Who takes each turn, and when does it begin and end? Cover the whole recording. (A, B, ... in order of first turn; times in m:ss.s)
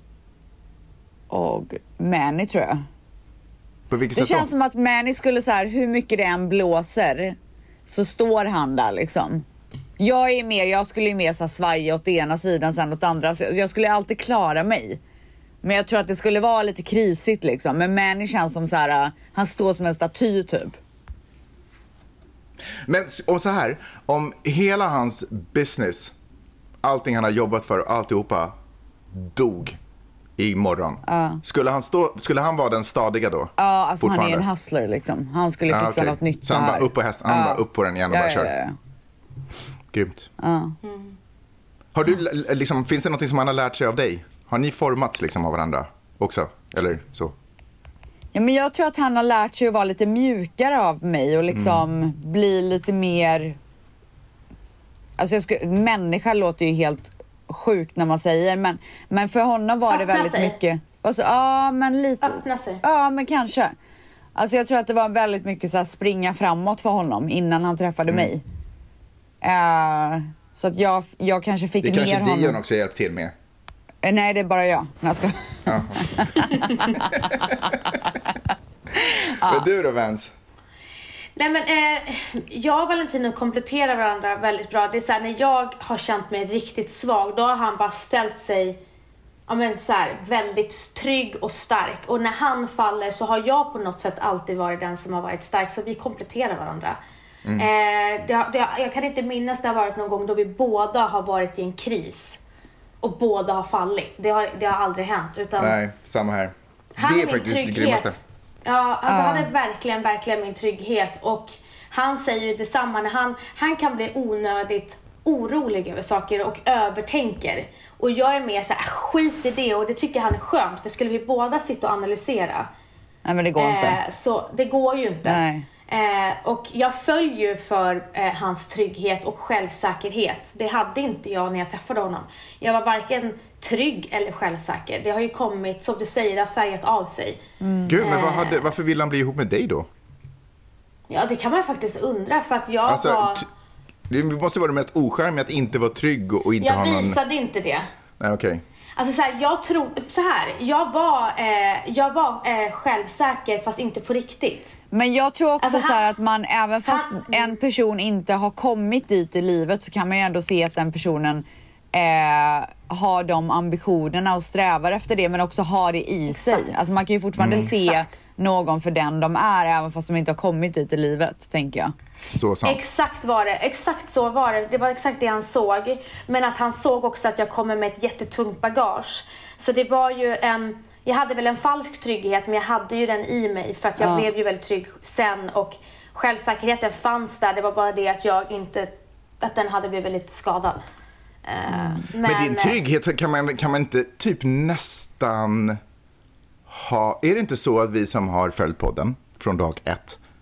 0:01.3-0:02.8 A
0:03.9-0:04.5 B
0:04.1-0:09.4 A
0:10.0-0:15.0 A
0:15.6-0:20.8 A
0:22.8-0:26.1 B
0:26.8-0:28.5 B
0:29.1-0:29.8 B
0:30.4-0:34.4 B
0:31.0-0:31.4 A
0:33.6-0:38.8 A
0:35.7-0:38.5 B
0:39.9-0:40.3 B
0:40.4-0:40.7 A
0:40.8-0:41.1 C
0:41.9-0:47.3 B
0:48.3-0:53.6 A
0:51.5-0:51.8 B
0:55.2-1:03.7 A
0:59.9-1:00.6 C
1:02.2-1:02.8 C
1:04.4-1:08.4 A
1:09.4-1:12.6 A
1:11.8-1:13.3 B
1:14.0-1:16.7 A
1:15.7-1:16.2 B
1:17.2-1:17.9 B
1:19.0-1:20.3 B
1:21.4-1:28.8 C
1:29.5-1:37.0 C
1:37.6-1:42.4 C
1:43.0-1:45.8 C
1:45.6-1:48.2 B
1:47.0-2:02.7 C
1:49.1-1:49.5 A
2:03.2-2:04.0 A
2:03.6-2:17.4 C
2:05.2-2:05.6 A
2:17.6-2:18.0 A
2:17.9-2:19.8 B
2:18.0-2:18.7 C
2:21.1-2:23.4 C
2:22.9-2:23.4 B
2:24.1-2:27.2 B
2:26.6-2:27.8 C
2:28.2-2:28.6 B
2:29.0-2:34.8 C
2:34.9-2:51.9 A
2:35.6-2:36.0 C
2:36.8-2:37.6 C
2:46.3-2:46.7 C
2:47.4-2:47.6 B
2:47.5-2:48.0 C
2:52.3-2:52.8 B
2:52.6-3:10.8 C
3:04.0-3:04.3 A
3:11.4-3:12.8 C
3:11.7-3:12.0 A
3:12.2-3:15.8 B
3:16.7-3:20.2 B